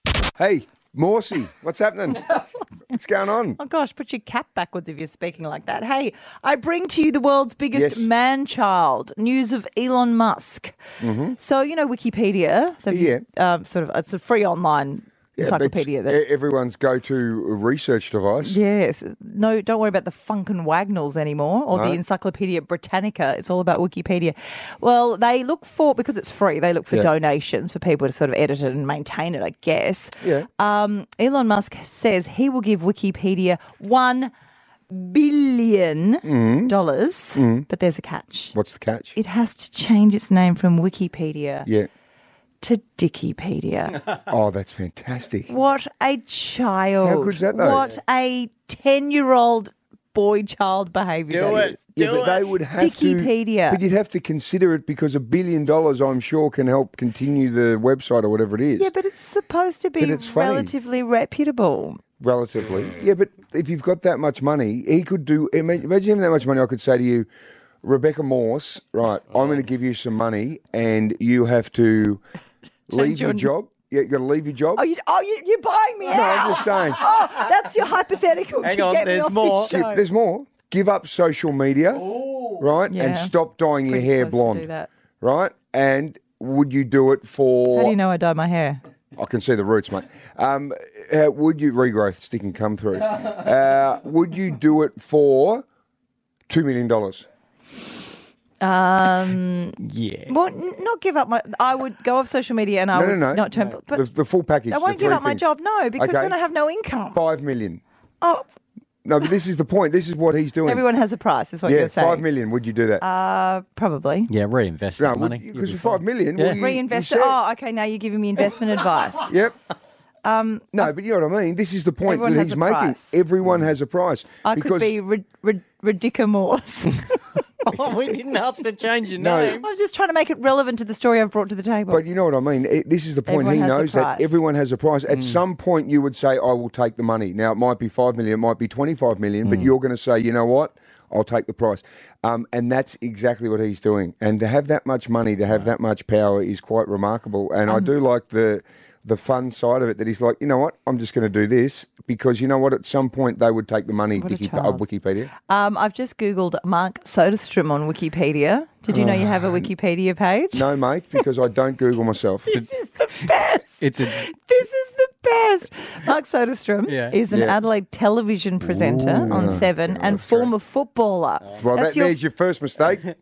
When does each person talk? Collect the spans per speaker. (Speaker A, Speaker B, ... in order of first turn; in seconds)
Speaker A: 0.3-2.3, 2.9-3.6, 7.7-8.1, 11.0-11.4, 12.9-13.2, 15.4-18.6, 21.7-22.0, 30.2-30.5, 36.2-36.7, 37.3-37.7, 38.5-39.1, 44.3-45.5, 47.0-47.9, 51.9-58.9, 60.0-60.7, 62.2-67.3, 67.8-72.2, 72.9-74.8, 76.1-77.0, 79.7-84.7, 85.2-88.0, 89.1-95.6, 96.5-97.2, 102.9-105.5, 106.0-106.3, 107.1-107.8, 109.0-110.8, 111.6-113.0, 115.0-117.4, 119.2-119.5, 120.7-125.0, 129.2-129.6, 131.9-155.3, 158.9-159.7, 160.5-162.5, 167.3-167.6, 168.6-170.5, 171.6-173.1
Speaker B: 3.6-10.8, 11.4-16.2, 18.4-34.3, 34.9-38.5, 39.1-41.7, 42.6-44.0, 45.5-51.8, 52.8-53.8, 58.8-62.0, 72.9-73.5, 74.8-80.0, 82.9-83.3, 83.9-84.9, 87.7-88.8, 98.6-104.0, 104.7-107.2, 110.7-112.2, 113.0-114.3, 116.5-119.3, 120.2-120.9, 122.0-123.2, 124.4-127.2, 129.6-132.0, 133.2-134.3, 154.1-154.8, 155.5-160.6, 162.5-172.2
Speaker C: 51.3-52.4, 78.6-79.8, 82.0-82.6, 99.8-100.3, 114.3-116.6, 127.7-129.6, 135.1-135.4, 163.2-164.2, 166.9-167.2, 169.2-169.6, 171.4-171.7